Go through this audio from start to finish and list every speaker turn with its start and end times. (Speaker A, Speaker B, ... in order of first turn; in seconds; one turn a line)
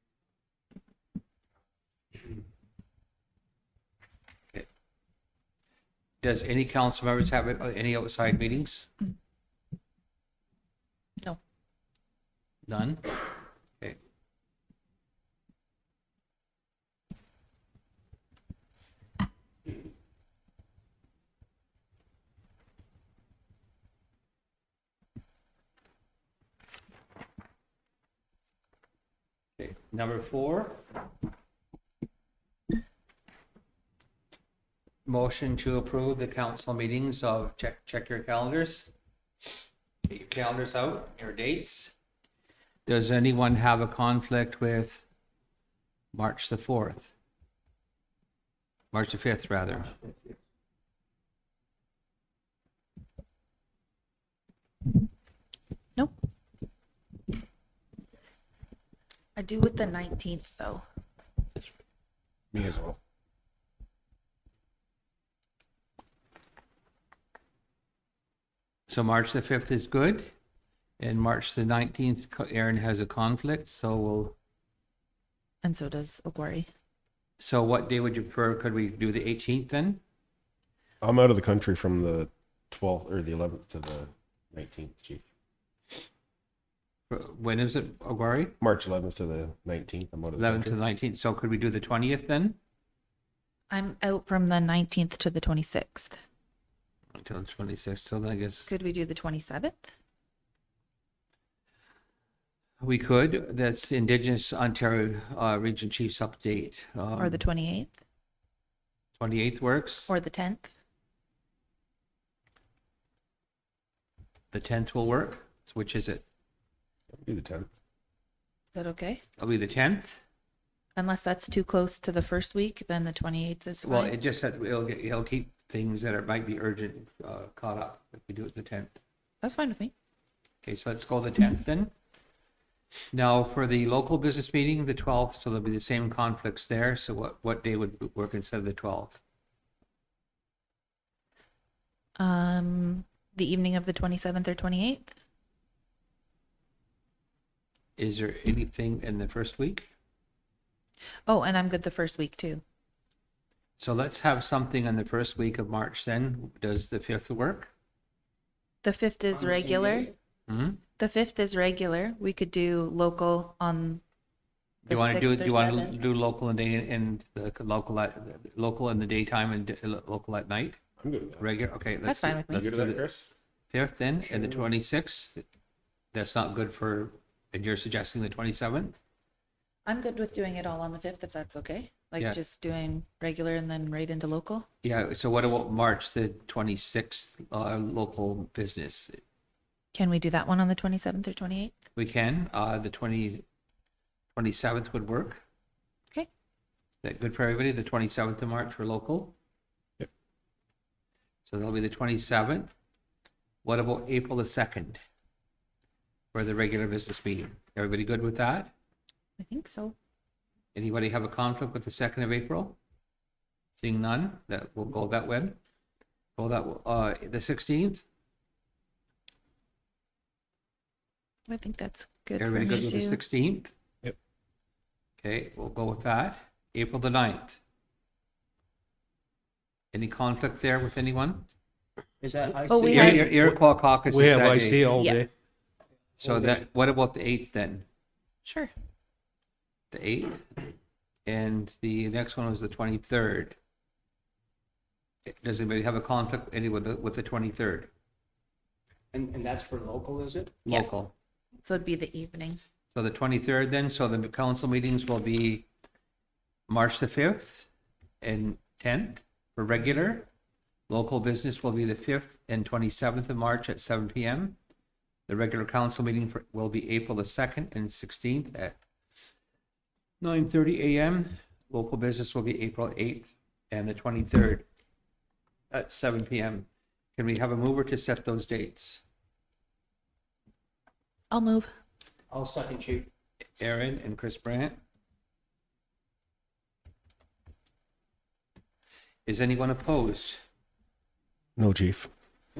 Speaker A: 6.2-8.9
Speaker A: 12.7-13.2
Speaker A: 29.6-30.9
Speaker A: 35.1-38.9
Speaker A: 40.1-41.9
Speaker A: 42.9-45.0
Speaker A: 46.1-47.1
Speaker A: 48.9-49.9
Speaker B: 59.4-60.8
Speaker C: 62.5-63.0
Speaker A: 68.9-70.3
Speaker A: 71.0-74.3
Speaker B: 75.6-76.7
Speaker A: 77.4-80.0
Speaker C: 81.0-85.2
Speaker A: 87.1-88.5
Speaker C: 88.6-90.8
Speaker A: 90.4-92.6
Speaker B: 93.7-96.2
Speaker A: 97.2-98.7
Speaker B: 98.7-99.9
Speaker A: 102.8-107.4
Speaker B: 107.2-107.9
Speaker A: 109.2-110.2
Speaker B: 110.1-110.7
Speaker A: 114.5-116.2
Speaker C: 117.2-117.7
Speaker B: 118.7-119.2
Speaker A: 119.4-120.2
Speaker B: 121.0-124.1
Speaker A: 123.8-129.0
Speaker B: 129.4-129.9
Speaker A: 130.6-131.9
Speaker A: 133.1-139.2
Speaker B: 142.2-145.2
Speaker A: 148.0-149.9
Speaker B: 151.3-152.6
Speaker A: 153.8-157.7
Speaker B: 158.8-160.1
Speaker D: 159.4-160.1
Speaker A: 160.5-160.8
Speaker B: 161.0-164.0
Speaker B: 164.9-166.0
Speaker A: 164.9-170.8
Speaker C: 171.0-171.6
Speaker A: 171.4-173.0
Speaker B: 172.0-172.7
Speaker C: 172.5-173.3
Speaker A: 173.7-175.4
Speaker A: 176.1-179.0
Speaker B: 179.9-184.7
Speaker A: 184.8-189.2
Speaker B: 189.9-191.8
Speaker A: 191.9-193.4
Speaker A: 194.3-195.4
Speaker A: 197.0-199.3
Speaker A: 201.5-202.7
Speaker A: 203.6-205.0
Speaker A: 206.3-208.7
Speaker B: 209.4-209.9
Speaker A: 210.8-212.8
Speaker A: 213.8-215.6
Speaker A: 216.4-218.1
Speaker B: 221.5-223.2
Speaker A: 222.4-223.7
Speaker A: 225.2-227.6
Speaker A: 229.9-231.5
Speaker D: 232.2-233.4
Speaker B: 232.7-233.2
Speaker A: 232.9-234.8
Speaker E: 232.9-235.3
Speaker B: 235.0-235.2
Speaker D: 236.2-236.6
Speaker A: 236.2-237.8
Speaker B: 238.4-238.7
Speaker A: 239.9-240.5
Speaker A: 241.3-243.6
Speaker A: 245.3-247.9
Speaker D: 249.1-250.5
Speaker A: 250.7-251.1
Speaker B: 251.7-252.6
Speaker A: 252.9-255.7
Speaker A: 256.7-257.7
Speaker A: 258.2-260.2
Speaker A: 260.9-264.6
Speaker A: 265.3-268.8
Speaker A: 270.2-274.6
Speaker A: 275.7-279.0
Speaker B: 281.3-281.7
Speaker D: 282.3-283.1
Speaker A: 283.6-284.8
Speaker A: 289.3-290.4
Speaker C: 291.6-292.1